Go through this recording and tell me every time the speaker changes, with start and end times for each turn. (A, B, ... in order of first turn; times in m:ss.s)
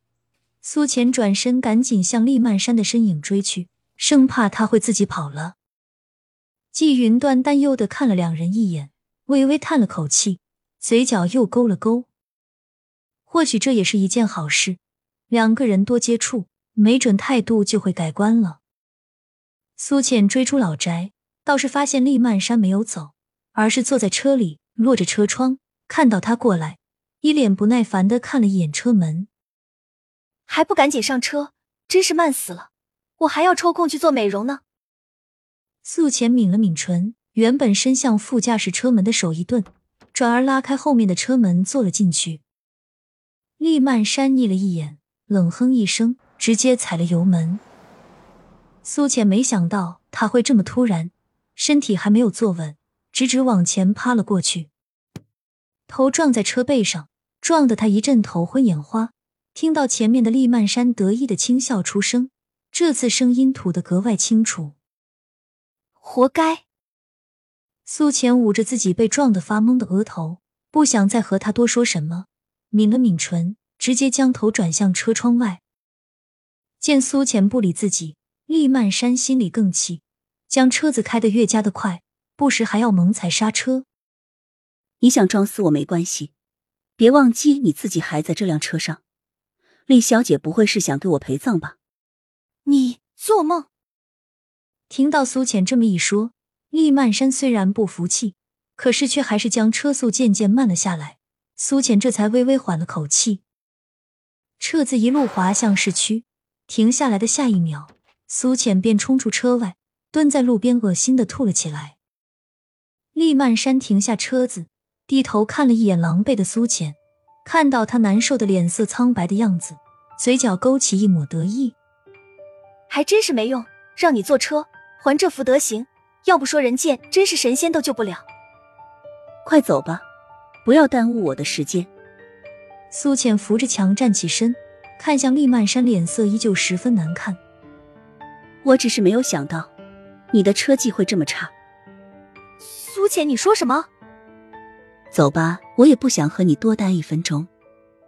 0:00.6-0:05.6 A
0:06.7-0:12.1 A
0:13.3-0:14.8 A
0:15.3-0:18.6 A
0:19.8-0:29.3 A
0:30.5-0:34.6 B
0:35.8-0:42.4 A
0:43.6-0:47.6 A
0:48.8-0:54.7 A
0:55.9-1:04.7 A
1:06.0-1:06.6 B
1:07.8-1:15.6 A
1:16.8-1:23.8 A
1:25.0-1:26.3 C
1:27.0-1:29.0 C
1:29.9-1:31.8 C
1:32.6-1:33.7 B
1:34.9-1:43.4 A
1:44.6-1:52.0 A
1:53.1-2:01.8 A
2:02.9-2:08.2 B
2:09.4-2:10.0 C
2:10.6-2:11.9 C
2:12.9-2:17.4 A
2:18.6-2:19.7 C
2:20.3-2:21.5 C
2:22.6-2:23.9 B
2:25.1-2:27.5 C